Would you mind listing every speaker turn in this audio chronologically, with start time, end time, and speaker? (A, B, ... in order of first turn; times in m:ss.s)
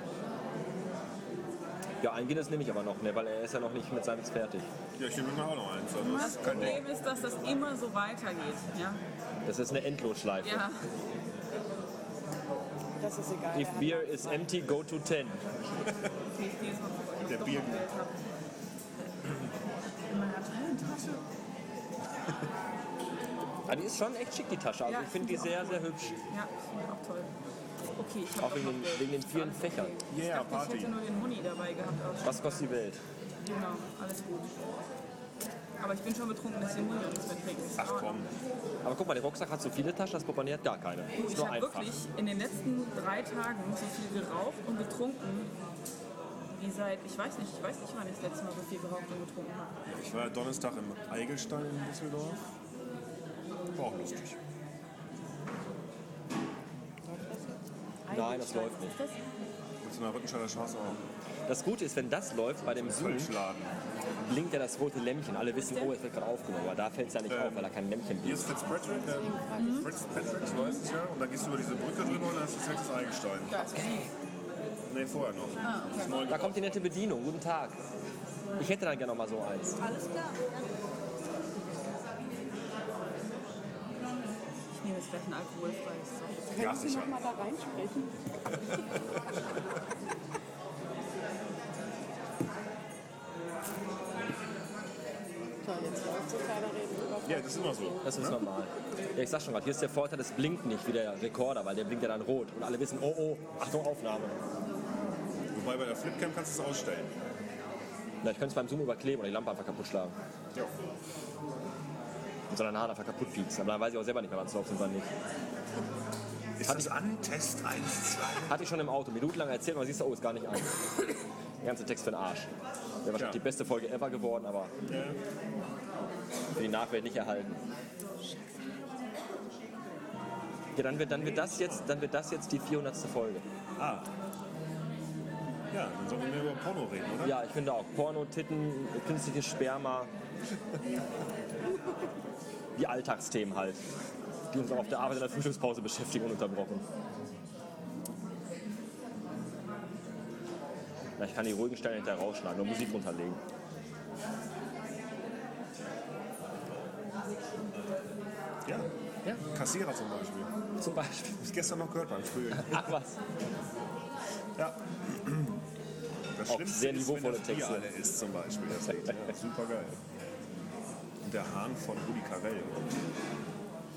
0:02.0-0:04.7 A
0:05.0-0:06.8 B
0:06.1-0:06.4 C
0:06.2-0:09.0 D
0:06.5-0:06.8 A
0:09.4-0:10.6 A
0:10.4-0:10.8 D
0:13.0-0:14.4 C
0:13.5-0:15.4 A
0:16.3-0:18.2 D
0:17.2-0:17.8 B
0:20.1-0:21.2 D
0:23.6-0:26.2 A
0:24.8-0:27.3 D
0:27.9-0:32.6 D
0:28.4-0:30.0 A
0:30.1-0:30.9 B
0:32.2-0:33.0 A
0:33.4-0:34.5 D
0:35.8-0:38.2 D
0:37.8-0:38.3 B
0:38.8-0:41.9 A
0:41.1-0:45.5 D
0:46.5-0:49.7 D
0:49.8-0:52.4 B
0:53.7-0:54.4 B
0:57.1-0:58.2 C
0:58.1-0:59.2 D
0:58.1-0:59.0 A
0:59.8-1:01.0 B
1:01.5-1:03.3 A
1:02.7-1:03.7 B
1:04.3-1:08.5 A
1:05.5-1:05.9 D
1:07.3-1:07.7 B
1:08.2-1:13.6 B
1:09.0-1:09.9 C
1:09.6-1:09.9 D
1:13.5-1:14.1 D
1:14.9-1:16.8 B
1:15.6-1:16.2 D
1:16.2-1:17.8 A
1:18.6-1:19.9 A
1:19.9-1:20.4 C
1:24.7-1:26.6 D
1:26.5-1:28.1 C
1:26.6-1:27.1 B
1:35.6-1:38.0 C
1:37.2-1:38.4 B
1:38.0-1:44.3 A
1:45.5-1:47.1 B
1:48.2-1:50.1 A
1:52.5-1:55.1 A
1:56.6-1:58.7 B
1:56.6-1:56.9 A
1:58.5-2:01.1 A
2:01.6-2:02.5 A
2:03.0-2:04.7 A
2:03.1-2:03.4 B
2:04.8-2:05.2 B
2:06.6-2:07.6 A
2:10.7-2:13.4 A
2:11.0-2:11.8 B
2:13.8-2:14.1 B
2:15.7-2:17.4 B
2:17.2-2:20.1 A
2:22.8-2:23.8 A
2:24.5-2:26.8 A
2:31.2-2:33.4 A
2:39.5-2:40.5 B
2:40.8-2:41.6 A
2:41.4-2:42.9 B
2:42.6-2:43.2 A
2:44.6-2:45.6 B
2:46.4-2:49.9 B
2:46.5-2:47.8 A
2:51.2-2:53.0 B